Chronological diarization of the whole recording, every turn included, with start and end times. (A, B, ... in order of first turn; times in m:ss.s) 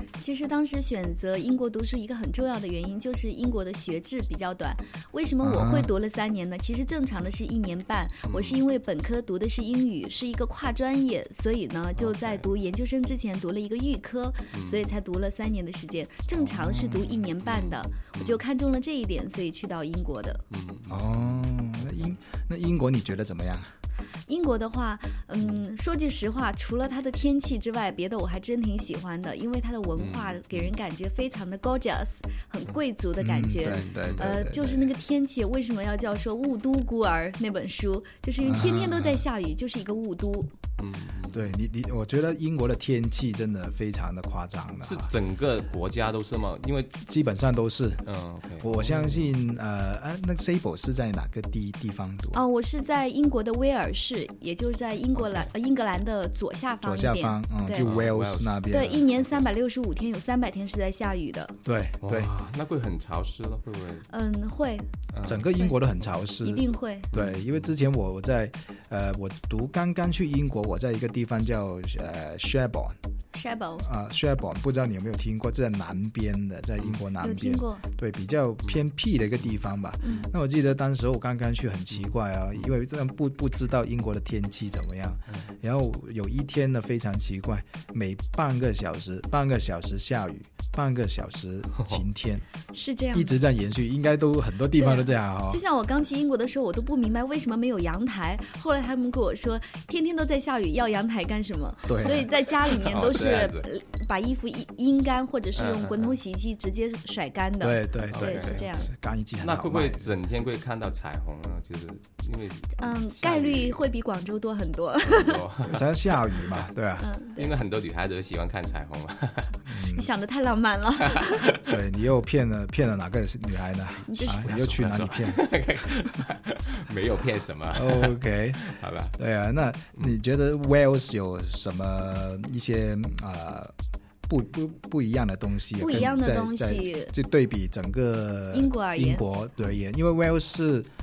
0:00.2-0:20.4 A
0:05.4-0:05.9 B
0:08.2-0:08.6 C
0:12.0-0:12.4 C
0:14.5-0:14.9 C
0:16.4-0:17.2 B
0:17.4-0:18.4 C
0:20.5-0:22.1 C
0:20.9-0:23.7 B
0:24.3-0:40.5 A
0:30.0-0:30.7 C
0:33.2-0:34.8 B
0:33.6-0:34.4 C
0:38.4-0:39.2 B
0:40.8-0:41.5 C
0:41.3-0:45.1 B
0:44.8-0:47.0 C
0:47.0-0:48.0 B
0:48.0-0:49.3 C
0:48.6-0:52.4 B
0:52.3-0:57.9 A
0:56.8-0:59.0 B
0:57.7-0:59.4 C
0:58.7-1:01.5 A
1:01.6-1:02.3 B
1:02.0-1:04.0 C
1:04.1-1:04.9 A
1:05.1-1:05.5 C
1:05.2-1:13.0 B
1:06.4-1:07.1 A
1:07.1-1:07.7 C
1:13.3-1:13.8 A
1:13.8-1:32.4 B
1:17.2-1:17.8 A
1:32.7-1:33.4 A
1:33.1-1:35.6 B
1:34.8-1:48.9 A
1:41.9-1:42.3 B
1:42.1-1:43.7 C
1:45.6-1:46.2 C
1:47.6-1:50.1 B
1:48.1-1:53.8 C
1:52.8-1:55.4 A
1:55.0-1:55.9 C
1:55.6-1:57.0 B
1:57.0-1:57.5 A
1:57.4-1:59.6 C
1:59.6-2:00.1 B
1:59.9-2:01.5 A
2:01.0-2:01.7 C
2:01.6-2:05.4 B
2:04.1-2:04.6 A
2:04.2-2:09.1 C
2:07.7-2:08.6 B
2:09.2-2:13.7 B
2:14.3-2:20.9 B
2:15.8-2:17.1 A
2:18.5-2:19.2 A